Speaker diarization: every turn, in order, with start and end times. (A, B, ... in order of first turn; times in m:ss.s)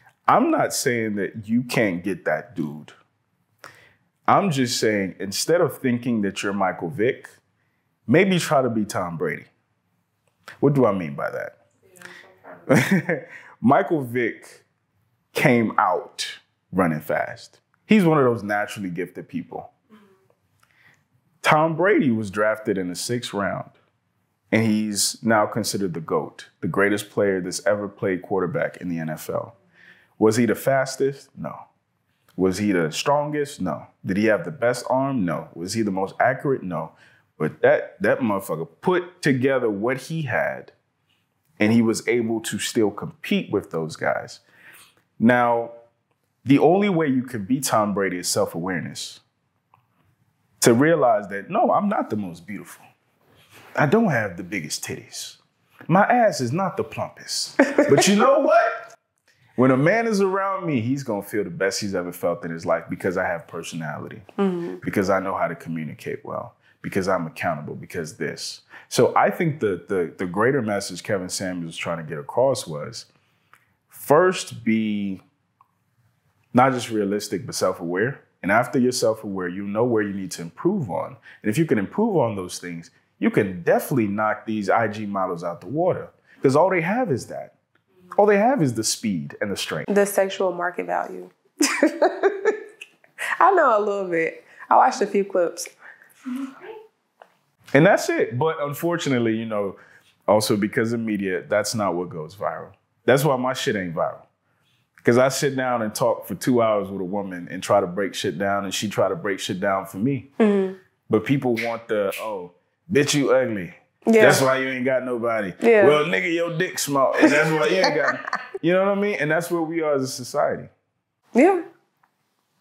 0:00.3-0:03.0 A
0:04.3-0:07.3 A
0:08.1-0:09.5 A
0:10.6-0:11.6 A
0:11.9-0:12.8 B
0:12.7-0:14.6 A
0:15.3-0:19.7 A
0:21.4-0:23.8 A
0:24.5-0:29.6 A
0:30.2-0:31.6 A
0:32.4-0:40.7 A
0:41.6-0:44.4 A
0:45.2-0:45.7 A
0:46.4-0:49.2 A
0:50.6-0:52.9 A
0:53.8-0:58.8 A
0:59.6-1:04.3 A
1:04.4-1:04.8 B
1:04.8-1:13.1 A
1:13.9-1:15.2 A
1:16.5-1:27.6 A
1:28.2-1:29.9 A
1:29.9-1:32.6 B
1:33.4-1:35.7 B
1:37.7-1:39.8 A
1:40.3-1:44.2 A
1:45.0-1:50.3 A
1:50.4-1:50.8 B
1:51.1-2:00.7 A
1:54.1-1:54.4 B
1:55.6-1:56.0 B
1:57.3-1:58.0 B
2:01.3-2:01.6 B